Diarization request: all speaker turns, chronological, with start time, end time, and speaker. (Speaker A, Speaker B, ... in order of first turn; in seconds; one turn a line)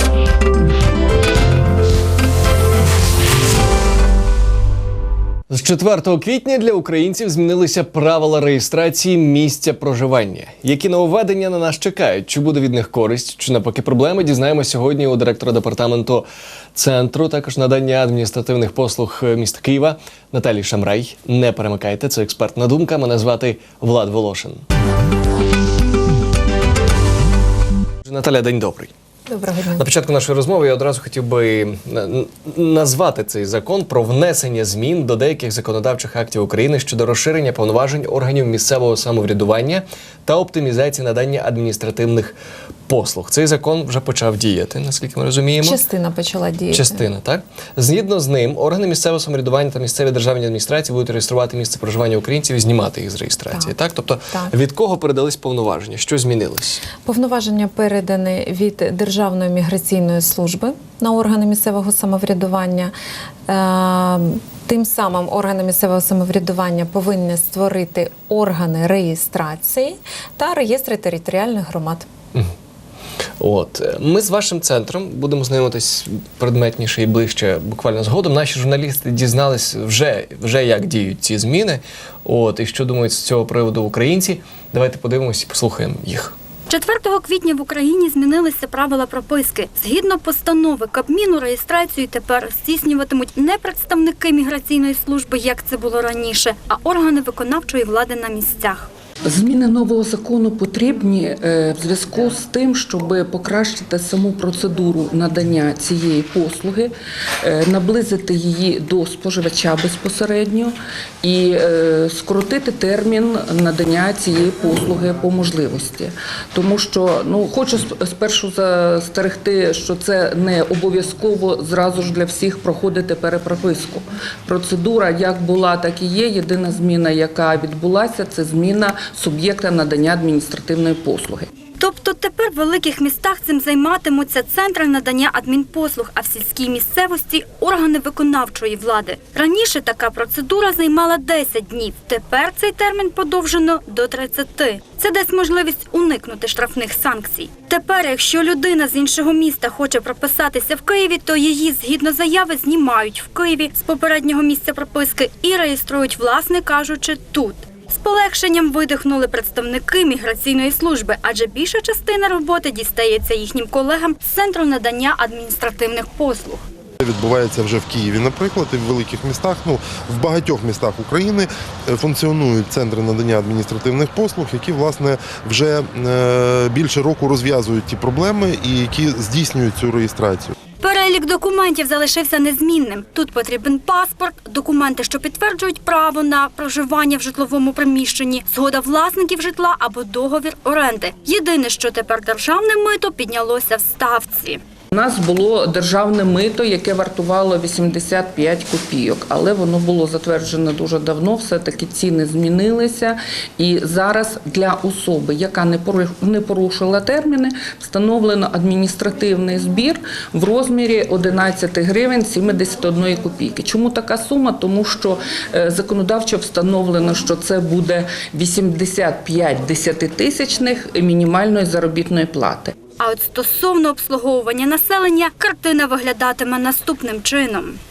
Speaker A: 5.5-24.6
Speaker A: 28.1-28.9
Speaker B: 29.3-29.8
Speaker A: 29.8-42.4
Speaker A: 42.9-45.8
Speaker B: 45.6-47.0
Speaker A: 46.7-56.8
Speaker B: 57.0-62.9
Speaker B: 63.5-72.1
Speaker A: 73.4-86.3
Speaker C: 86.7-98.9
Speaker D: 99.2-131.5
Speaker C: 131.8-166.6
Speaker E: 167.0-180.5
Speaker C: 180.8-194.6
Speaker D: 194.9-222.8
Speaker C: 223.0-227.8